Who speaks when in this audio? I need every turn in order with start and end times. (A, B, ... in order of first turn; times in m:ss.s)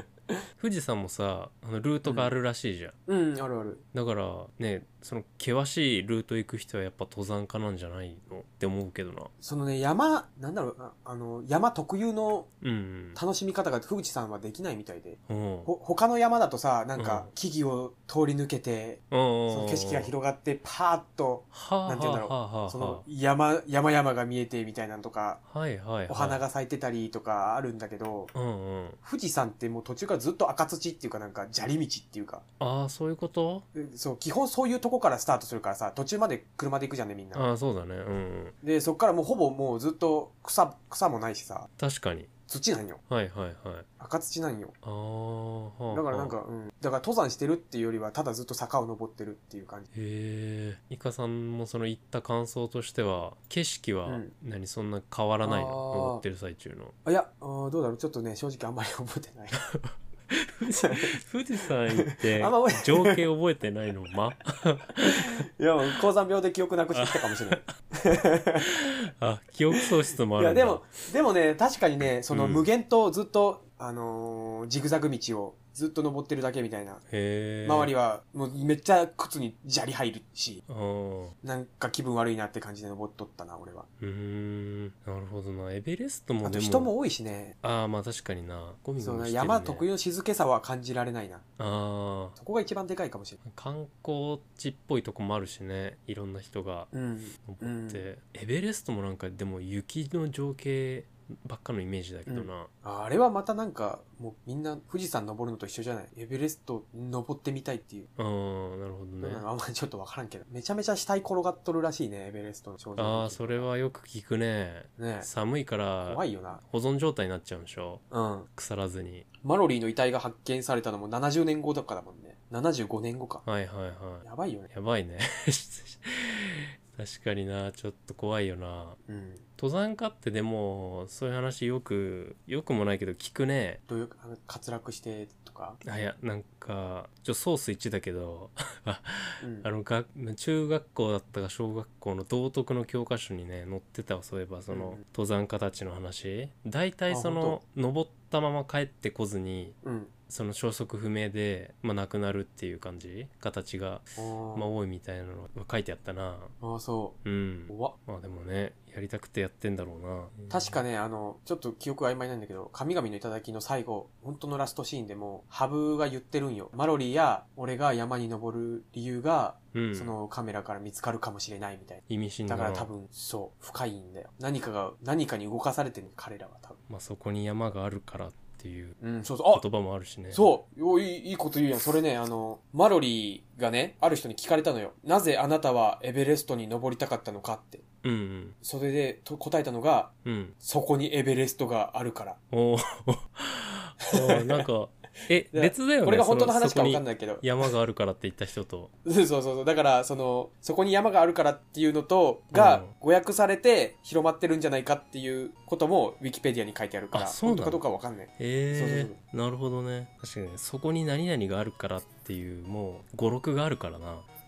0:00.6-0:02.9 A
0:02.0-0:02.3 B
0:03.0-0:03.8 B
0:03.9-0:09.3 A
0:09.4-0:12.5 B
0:12.6-0:13.2 A
0:13.1-0:25.4 B
0:15.3-0:15.7 A
0:17.0-0:17.3 A
0:19.1-0:20.1 A
0:21.5-0:23.0 A
0:25.5-0:26.4 A
0:26.1-0:28.3 B
0:28.3-0:29.0 A
0:29.0-0:32.4 B
0:32.6-0:33.6 A
0:33.7-0:37.5 B
0:37.3-0:38.6 A
0:38.6-0:41.7 B
0:41.8-0:42.3 A
0:42.5-0:43.0 B
0:43.1-0:43.9 A
0:44.0-0:44.7 B
0:44.8-0:46.4 A
0:45.9-0:49.9 B
0:49.9-0:56.9 A
0:54.0-0:54.3 B
0:55.4-0:56.2 B
0:57.0-0:59.6 B
0:59.7-1:05.4 A
1:02.1-1:03.2 B
1:05.0-1:08.7 B
1:06.9-1:07.7 A
1:08.8-1:10.9 A
1:10.4-1:17.0 B
1:12.3-1:12.7 A
1:17.1-1:17.9 A
1:17.6-1:20.6 B
1:20.7-1:21.3 A
1:21.4-1:23.9 B
1:24.0-1:26.9 A
1:26.4-1:27.6 B
1:27.6-1:29.9 A
1:29.0-1:31.4 B
1:31.6-1:32.4 A
1:32.4-1:33.4 B
1:33.4-1:36.9 A
1:36.9-1:38.0 B
1:37.4-1:42.7 A
1:42.2-1:48.1 B
1:48.2-1:49.4 A
1:49.2-1:53.7 B
1:53.0-1:59.2 A
1:55.0-1:55.3 B
1:56.0-1:56.6 B
1:58.1-1:58.5 B
1:59.4-2:03.4 B
2:03.4-2:09.0 A
2:04.2-2:04.7 B
2:09.1-2:09.4 B
2:09.6-2:13.8 A
2:13.9-2:15.8 B
2:15.8-2:29.8 A
2:19.4-2:19.7 B
2:24.7-2:25.0 B
2:27.1-2:27.6 B
2:29.8-2:30.1 B
2:30.3-2:36.5 A
2:34.2-2:34.7 B
2:36.6-2:38.0 B
2:37.2-2:40.8 A
2:40.5-2:56.8 B
2:49.7-2:50.1 A
2:52.1-2:52.9 A
2:56.9-2:59.0 A
2:59.0-2:59.6 B
2:59.5-3:00.5 A
3:00.3-3:07.8 B
3:08.0-3:08.6 A
3:08.6-3:12.4 B
3:10.2-3:10.5 A
3:12.5-3:18.9 A
3:14.1-3:14.7 B
3:15.5-3:17.5 B
3:19.0-3:29.2 B
3:22.5-3:22.9 A
3:27.1-3:27.8 A
3:28.4-3:34.2 A